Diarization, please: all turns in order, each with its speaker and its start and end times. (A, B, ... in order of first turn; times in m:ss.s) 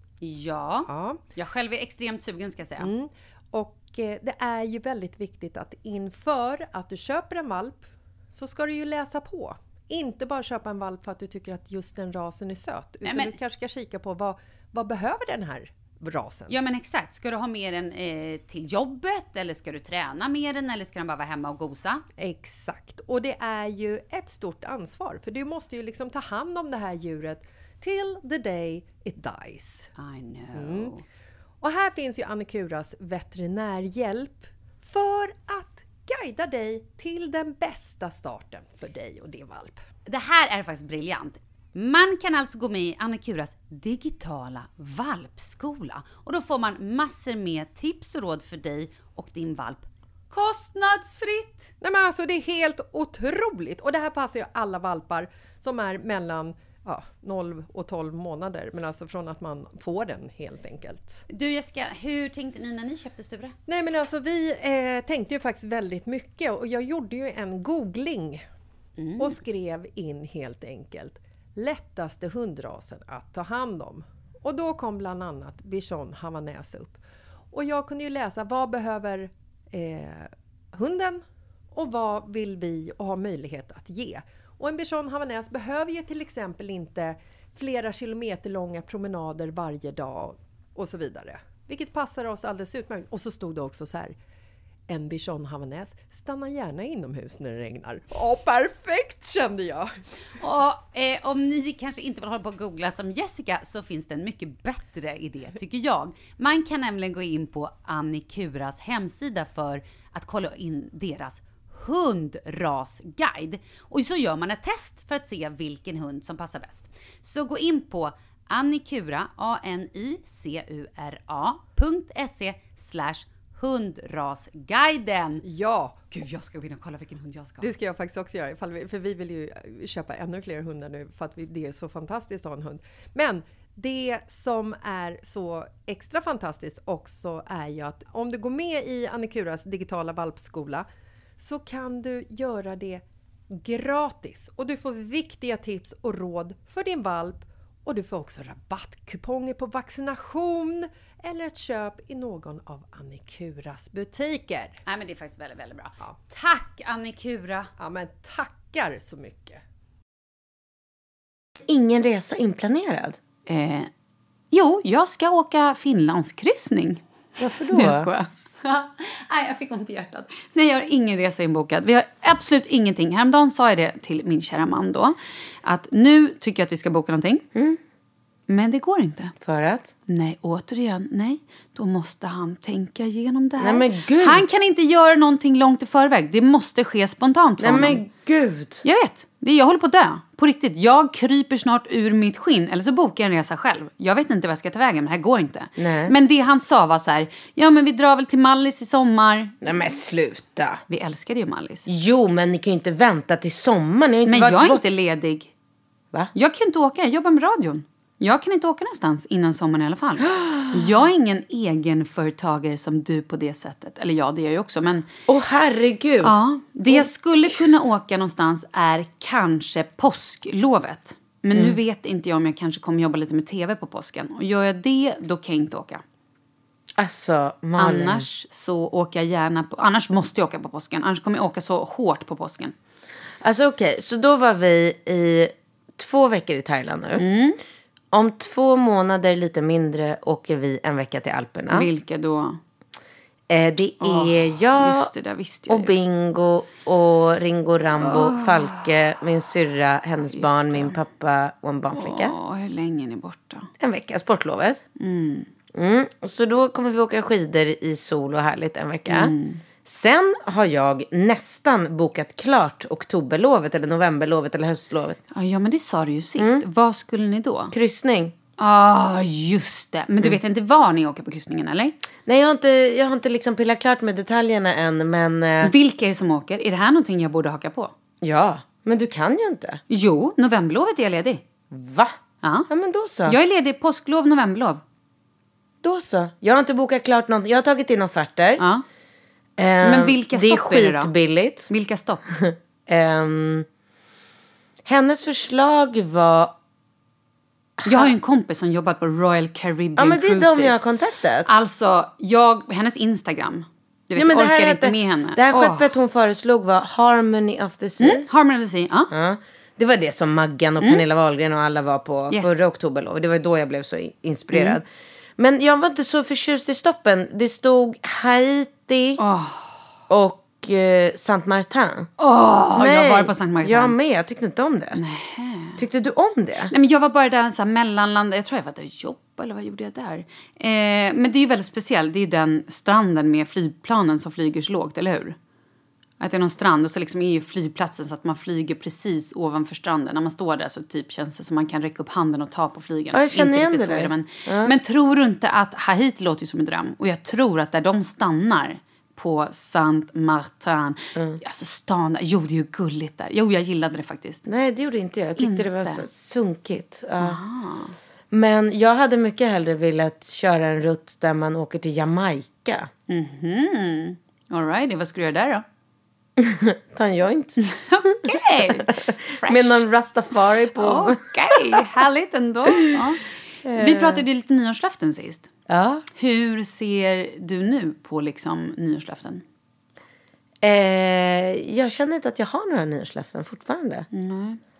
0:00.2-0:02.9 A
0:00.9-0:01.2 B
0:02.8-0:16.6 B
0:13.0-0:13.4 A
0:16.5-0:22.0 A
0:22.2-0:29.9 B
0:30.0-0:31.0 A
0:30.5-0:30.9 B
0:31.6-0:39.8 B
0:40.1-0:51.7 A
0:51.8-1:01.2 B
1:01.3-1:03.5 A
1:03.7-1:08.4 B
1:09.0-1:09.4 A
1:09.2-1:17.0 B
1:17.5-1:21.2 B
1:21.7-1:34.1 B
1:34.9-1:39.9 B
1:40.4-2:05.4 A
2:05.4-2:06.1 B
2:06.1-2:07.7 A
2:07.6-2:20.8 B
2:21.4-2:34.8 B
2:34.8-2:37.7 A
2:37.8-2:39.6 B
2:41.7-2:43.1 C
2:43.5-2:43.9 A
2:44.5-2:47.0 A
2:47.4-2:48.1 C
2:47.7-2:57.4 A
2:58.5-2:59.3 A
2:59.4-2:59.9 C
3:00.1-3:08.0 A
3:03.6-3:04.4 C
3:07.6-3:08.8 C
3:08.8-3:19.6 A
3:15.8-3:16.1 C
3:19.6-3:20.8 C
3:20.9-3:21.9 A
3:21.9-3:24.8 C
3:24.2-3:25.5 A
3:26.3-3:35.1 A
3:30.4-3:30.8 C
3:35.3-3:36.3 C
3:36.2-3:46.0 A
3:36.9-3:37.6 C
3:47.0-3:48.2 C
3:47.8-3:52.7 A
3:53.4-3:57.2 C
3:57.2-3:57.6 A
3:58.1-4:01.8 C
4:01.7-4:02.6 A
4:03.5-4:05.1 C
4:04.0-4:05.9 A
4:05.7-4:12.3 C
4:08.0-4:09.0 A
4:10.3-4:10.9 A
4:11.9-4:13.7 A
4:13.8-4:14.8 C
4:15.0-4:15.5 A
4:15.7-4:19.3 C
4:19.1-4:19.6 A
4:19.8-4:25.2 C
4:25.3-4:27.7 A
4:27.7-4:28.3 C
4:28.6-4:32.0 A
4:32.3-4:35.7 C
4:35.6-4:37.9 A
4:38.2-4:39.8 C
4:39.9-4:41.4 A
4:41.7-4:42.1 C
4:42.4-4:42.7 A
4:42.7-4:43.3 C
4:43.2-4:44.8 A
4:45.8-4:48.6 C
4:48.6-4:48.8 A
4:49.6-4:51.6 C
4:49.8-4:51.1 A
4:51.7-4:52.2 A
4:52.4-4:53.6 C
4:54.9-4:56.5 C
4:57.8-4:58.1 C
4:57.8-5:00.8 A
5:00.0-5:01.4 C
5:01.4-5:05.9 A
5:04.2-5:08.2 C
5:08.0-5:09.1 A
5:09.1-5:14.8 C
5:12.3-5:12.5 A
5:14.5-5:14.8 A
5:15.4-5:19.2 C
5:19.2-5:19.7 A
5:20.1-5:22.1 C
5:22.2-5:23.9 A
5:22.8-5:24.9 C
5:24.9-5:25.8 A
5:25.8-5:26.7 C
5:26.7-5:35.4 A
5:36.2-5:54.4 A
5:43.1-5:44.7 C
5:54.5-5:57.2 C
5:55.4-5:56.0 A
5:57.2-5:57.9 A
5:58.3-6:02.9 C
6:03.1-6:05.6 A
6:06.4-6:07.5 C
6:07.7-6:09.8 A
6:09.5-6:11.1 C
6:10.8-6:15.5 A
6:13.7-6:14.2 C
6:15.7-6:16.0 C
6:16.2-6:19.4 A
6:20.6-6:24.0 C
6:24.1-6:24.6 A